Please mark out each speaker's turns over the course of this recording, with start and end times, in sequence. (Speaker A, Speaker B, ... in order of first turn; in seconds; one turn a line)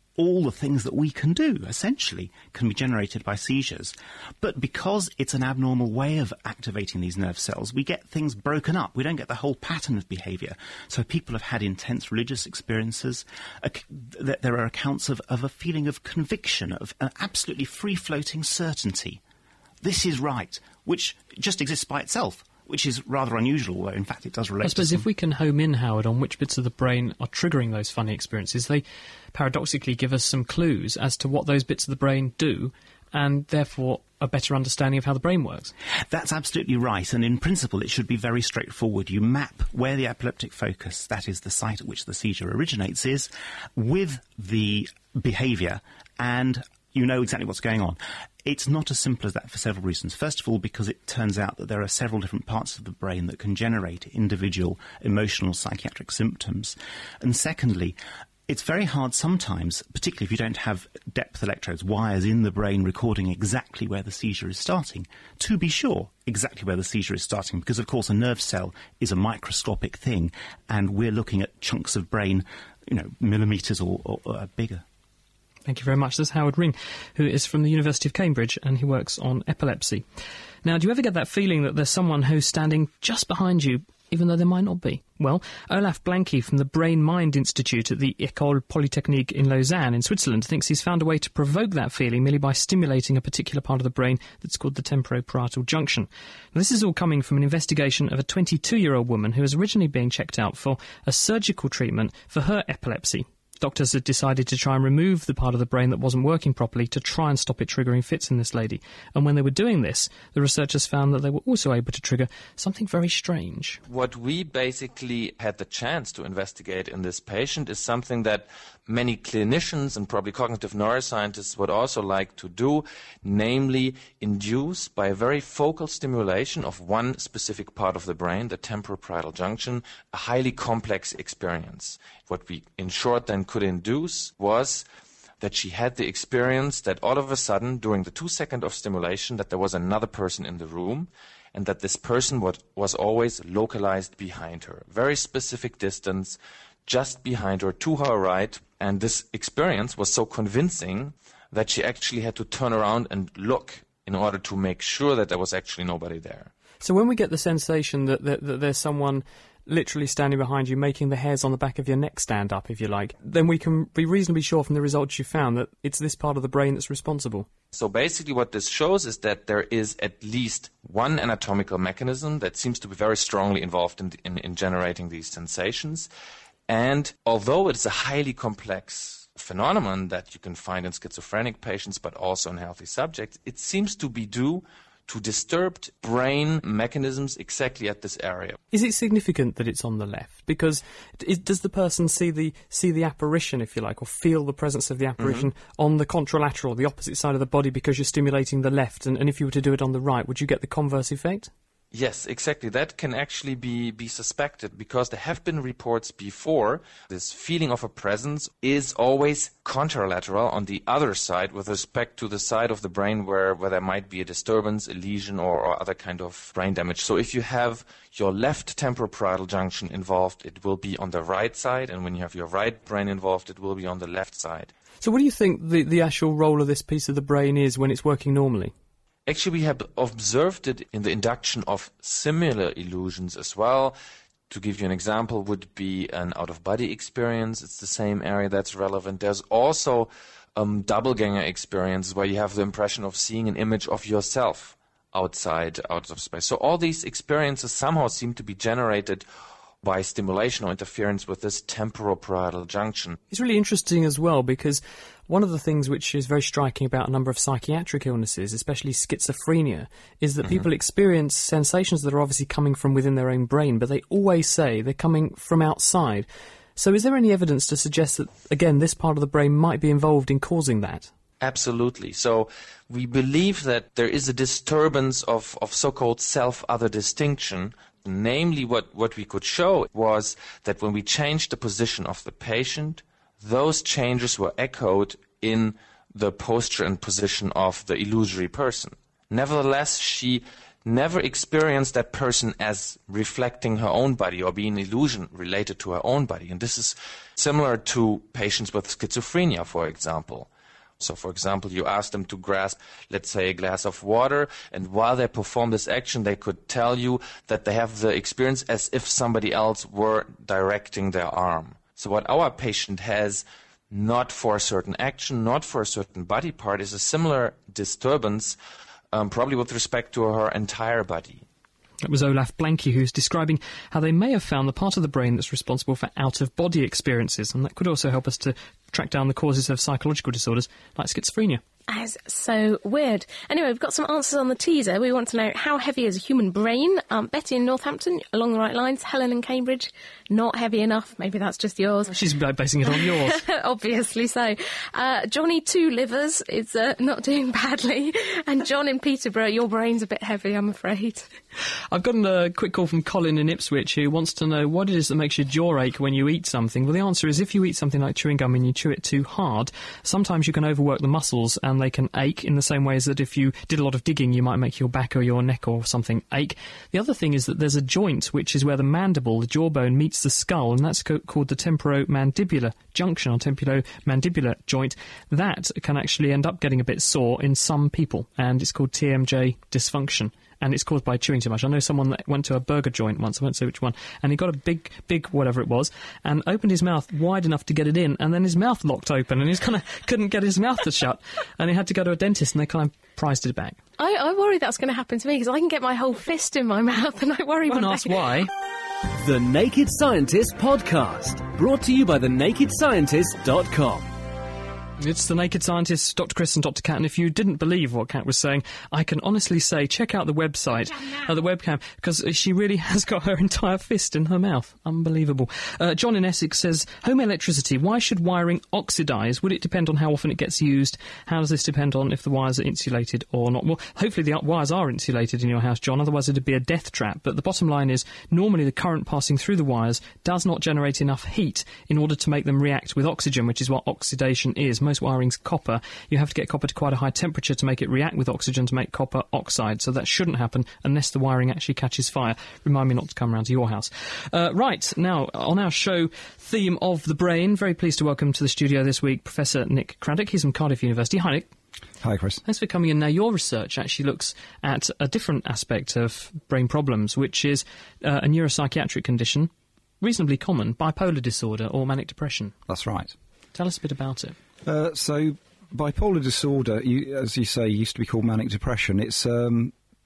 Speaker A: 0.2-19.2
Speaker A: 19.8-25.1
Speaker B: 24.6-35.7
Speaker A: 36.1-58.0
Speaker A: 58.5-74.8
Speaker B: 75.7-80.0
Speaker B: 80.6-113.8
Speaker C: 113.9-134.8
Speaker C: 135.4-156.5
Speaker B: 156.8-167.5
Speaker C: 167.7-176.1
Speaker C: 176.7-188.6
Speaker B: 188.7-201.5
Speaker C: 195.2-195.5
Speaker C: 201.9-224.7
Speaker B: 225.0-228.7
Speaker C: 229.3-234.0
Speaker C: 234.5-249.2
Speaker C: 249.8-253.2
Speaker B: 253.3-271.1
Speaker C: 271.4-300.5
Speaker C: 301.0-318.6
Speaker C: 319.1-321.4
Speaker B: 322.0-331.6
Speaker D: 331.9-342.2
Speaker B: 342.1-343.4
Speaker D: 342.9-351.3
Speaker B: 351.9-393.8
Speaker D: 394.0-398.2
Speaker B: 397.7-398.5
Speaker E: 399.2-404.1
Speaker B: 405.0-451.5
Speaker F: 452.0-452.4
Speaker B: 452.4-459.5
Speaker B: 460.0-462.5
Speaker F: 462.7-463.1
Speaker B: 463.5-464.4
Speaker F: 464.6-469.7